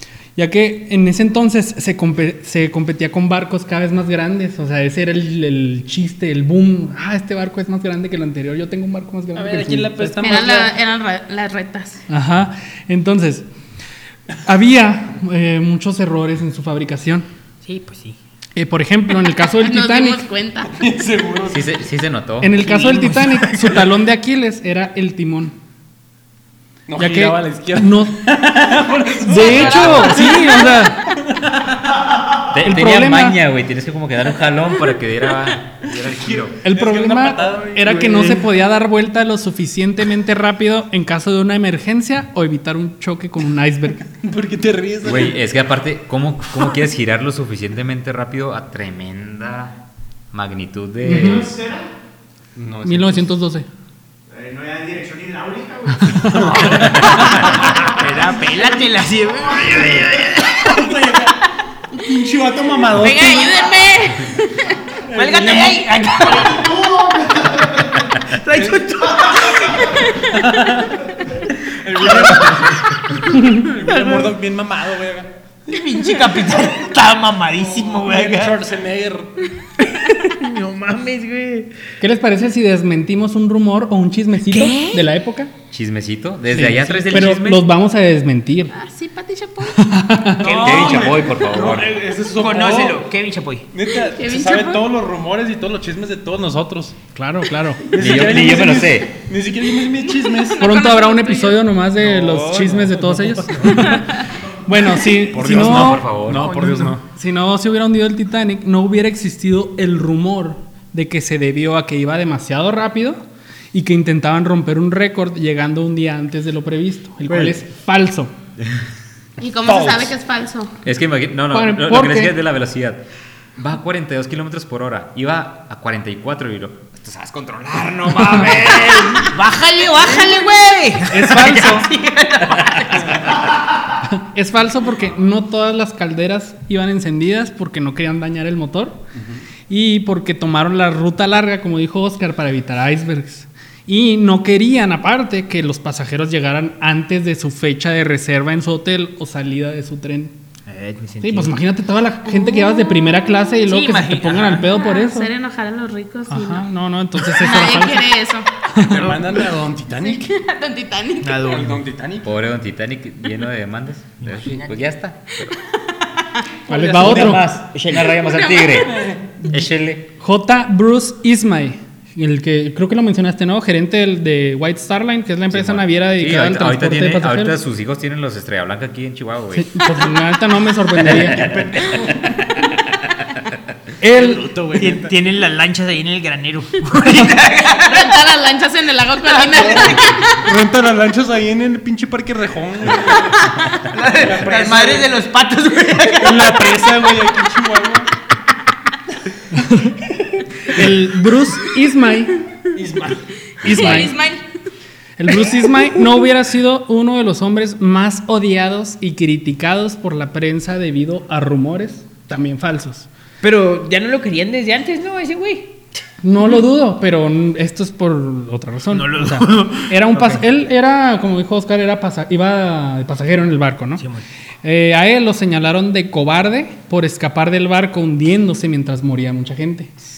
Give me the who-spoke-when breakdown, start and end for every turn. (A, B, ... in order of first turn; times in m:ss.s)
0:00.4-0:10.4 A
0:09.4-0:10.8 B
0:10.2-0:12.0 C
0:12.1-0:13.5 A
0:14.4-0:17.3 A
0:17.6-0:18.2 D
0:18.6-0:20.3 A
0:19.6-0:20.8 C
0:20.7-0:21.8 B
0:21.5-0:22.6 E
0:22.4-0:25.6 A
0:22.6-0:23.8 D
0:26.9-0:31.9 B
0:27.0-0:28.6 A
0:29.2-0:31.1 A
0:29.4-0:30.3 E
0:32.5-0:36.6 E
0:32.6-0:33.4 A
0:35.9-0:38.5 B
0:36.6-0:44.1 A
0:44.1-0:45.4 B
0:45.0-0:49.8 E
0:50.3-0:51.5 E
0:51.0-0:51.5 A
0:51.1-0:51.9 F
0:52.6-0:53.3 B
0:52.8-0:53.7 A
0:54.3-0:57.0 F
0:56.1-0:56.6 A
0:56.3-0:57.9 B
0:56.5-1:01.1 D
0:57.6-0:59.0 F
1:00.5-1:01.4 B
1:02.0-1:03.7 B
1:02.9-1:04.8 C
1:05.1-1:06.0 B
1:05.1-1:06.7 D
1:06.2-1:08.2 F
1:08.3-1:09.9 D
1:08.5-1:09.2 B
1:09.1-1:09.9 F
1:10.1-1:15.3 B
1:12.3-1:12.6 D
1:13.3-1:13.7 A
1:13.8-1:14.3 D
1:15.7-1:18.6 D
1:17.6-1:19.4 B
1:19.8-1:21.8 D
1:22.0-1:25.5 A
1:24.5-1:25.0 D
1:25.7-1:27.7 E
1:26.5-1:28.7 A
1:28.7-1:30.0 C
1:29.7-1:30.6 A
1:30.4-1:31.4 D
1:30.4-1:33.1 B
1:30.5-1:32.0 E
1:32.3-1:33.7 D
1:33.7-1:37.0 B
1:34.1-1:34.8 C
1:37.1-1:37.9 A
1:37.9-1:40.7 B
1:37.9-1:39.2 E
1:40.2-1:41.7 C
1:40.6-1:58.3 A
1:42.0-1:43.8 D
1:42.4-1:44.0 B
1:43.8-1:44.1 C
1:45.3-1:47.0 B
1:45.4-1:46.6 E
1:59.4-2:00.7 C
1:59.6-2:00.1 B
2:00.8-2:03.0 E
2:01.5-2:02.4 A
2:03.6-2:09.4 E
2:09.2-2:13.4 D
2:11.1-2:11.9 A
2:12.6-2:13.0 E
2:14.0-2:19.0 A
2:19.7-2:30.3 A
2:30.7-2:31.6 D
2:31.2-2:35.3 A
2:33.6-2:34.7 D
2:34.7-2:36.6 C
2:36.3-2:38.1 A
2:37.3-2:38.5 C
2:38.7-2:39.2 A
2:38.8-2:40.4 B
2:40.0-2:41.7 C
2:41.2-2:41.8 D
2:41.5-2:42.3 B
2:42.2-2:45.6 E
2:44.2-2:44.9 D
2:46.2-2:46.6 C
2:46.7-2:47.5 A
2:46.9-2:47.3 B
2:46.9-2:50.1 E
2:47.0-2:48.2 D
2:48.2-2:49.1 C
2:48.7-2:49.2 B
2:50.2-2:57.5 A
2:55.5-2:59.8 E
2:59.6-3:01.6 A
3:01.0-3:02.1 E
3:01.5-3:02.1 B
3:04.0-3:04.5 A
3:04.0-3:05.1 B
3:04.7-3:08.2 D
3:07.8-3:10.5 C
3:09.2-3:10.1 D
3:09.5-3:13.5 B
3:13.9-3:16.8 D
3:14.1-3:15.1 B
3:16.2-3:18.1 B
3:19.5-3:20.0 A
3:20.6-3:22.4 A
3:22.8-3:23.2 B
3:23.6-3:24.4 C
3:23.6-3:24.1 A
3:25.2-3:33.1 A
3:33.4-3:35.8 D
3:36.2-3:44.0 A
3:38.9-3:40.4 D
3:44.0-3:44.2 D
3:44.6-3:49.9 A